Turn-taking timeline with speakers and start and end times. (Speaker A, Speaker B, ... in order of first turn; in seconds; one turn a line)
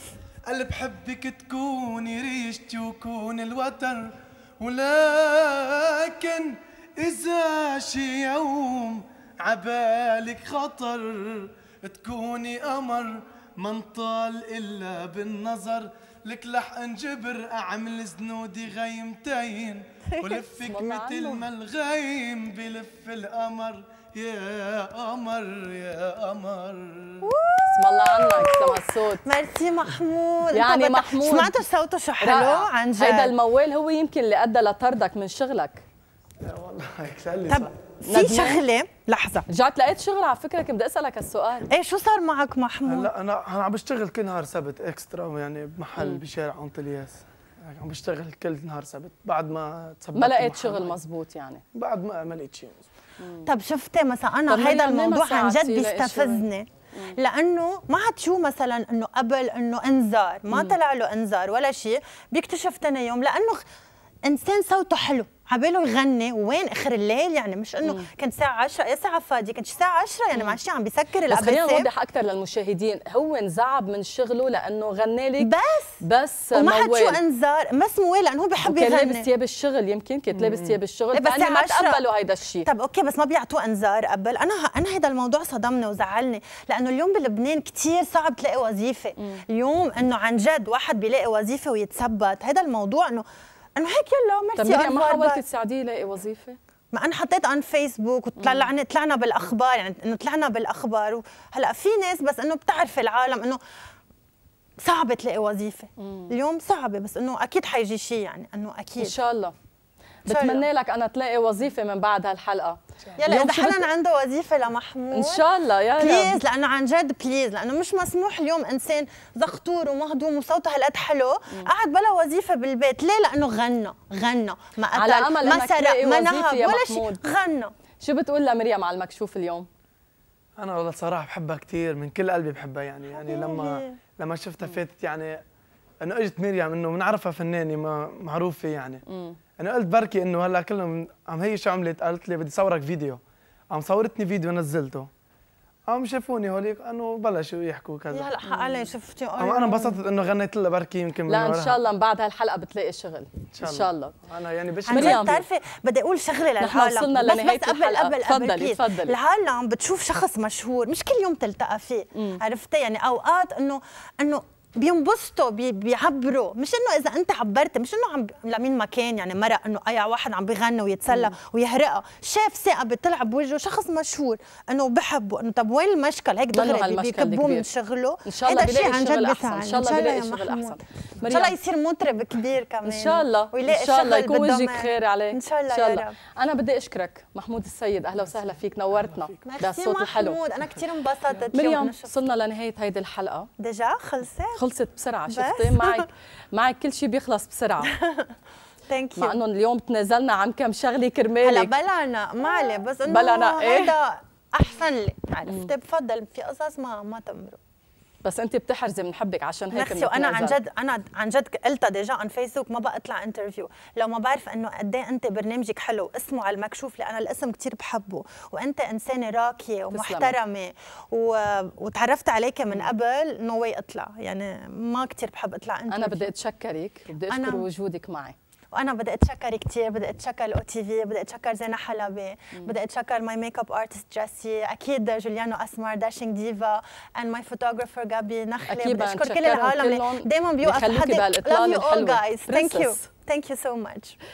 Speaker A: 0.5-27.3
Speaker B: 20.2-20.4
Speaker C: 20.5-21.5
Speaker B: 27.2-33.4
Speaker C: 27.7-29.2
Speaker C: 30.5-31.5
Speaker C: 32.2-35.8
Speaker A: 36.4-37.7
Speaker B: 37.5-39.5
Speaker C: 38.1-38.6
Speaker C: 39.5-41.7
Speaker B: 41.7-43.1
Speaker A: 42.9-51.0
Speaker C: 46.0-46.2
Speaker C: 50.1-51.6
Speaker A: 51.7-52.9
Speaker C: 53.2-53.5
Speaker B: 53.5-63.6
Speaker C: 54.5-57.2
Speaker B: 64.2-71.9
Speaker C: 70.3-70.6
Speaker C: 71.3-77.2
Speaker B: 75.4-79.3
Speaker C: 78.6-82.7
Speaker A: 80.3-80.8
Speaker B: 81.1-82.0
Speaker B: 82.6-93.2
Speaker B: 93.8-95.4
Speaker C: 94.6-96.6
Speaker B: 96.9-103.6
Speaker C: 98.4-98.7
Speaker B: 104.8-109.2
Speaker C: 106.0-106.3
Speaker C: 109.0-109.5
Speaker C: 110.3-113.9
Speaker B: 110.3-110.7
Speaker B: 113.2-115.5
Speaker C: 115.1-116.4
Speaker B: 116.0-127.7
Speaker C: 125.0-127.2
Speaker C: 128.0-129.7
Speaker A: 130.6-135.4
Speaker B: 133.1-134.0
Speaker A: 136.0-139.1
Speaker C: 139.1-139.4
Speaker A: 139.6-143.2
Speaker A: 143.7-145.1
Speaker A: 145.9-148.3
Speaker B: 148.1-150.0
Speaker C: 148.4-148.9
Speaker A: 149.4-151.8
Speaker C: 151.3-154.2
Speaker A: 153.5-155.5
Speaker B: 154.9-180.8
Speaker C: 154.9-155.3
Speaker C: 156.6-159.2
Speaker C: 162.2-162.4
Speaker C: 171.1-171.3
Speaker C: 176.5-177.7
Speaker C: 178.2-181.6
Speaker B: 181.3-186.2
Speaker C: 182.8-190.4
Speaker B: 189.4-192.3
Speaker C: 191.5-193.5
Speaker B: 193.6-194.6
Speaker C: 194.5-198.0
Speaker B: 195.3-196.1
Speaker B: 198.0-198.3
Speaker B: 198.9-199.4
Speaker C: 199.2-201.7
Speaker B: 201.4-207.6
Speaker C: 202.4-204.0
Speaker C: 208.2-210.6
Speaker B: 209.7-226.3
Speaker C: 219.9-220.4
Speaker C: 225.9-228.4
Speaker B: 227.3-227.7
Speaker B: 228.7-244.2
Speaker C: 238.7-243.1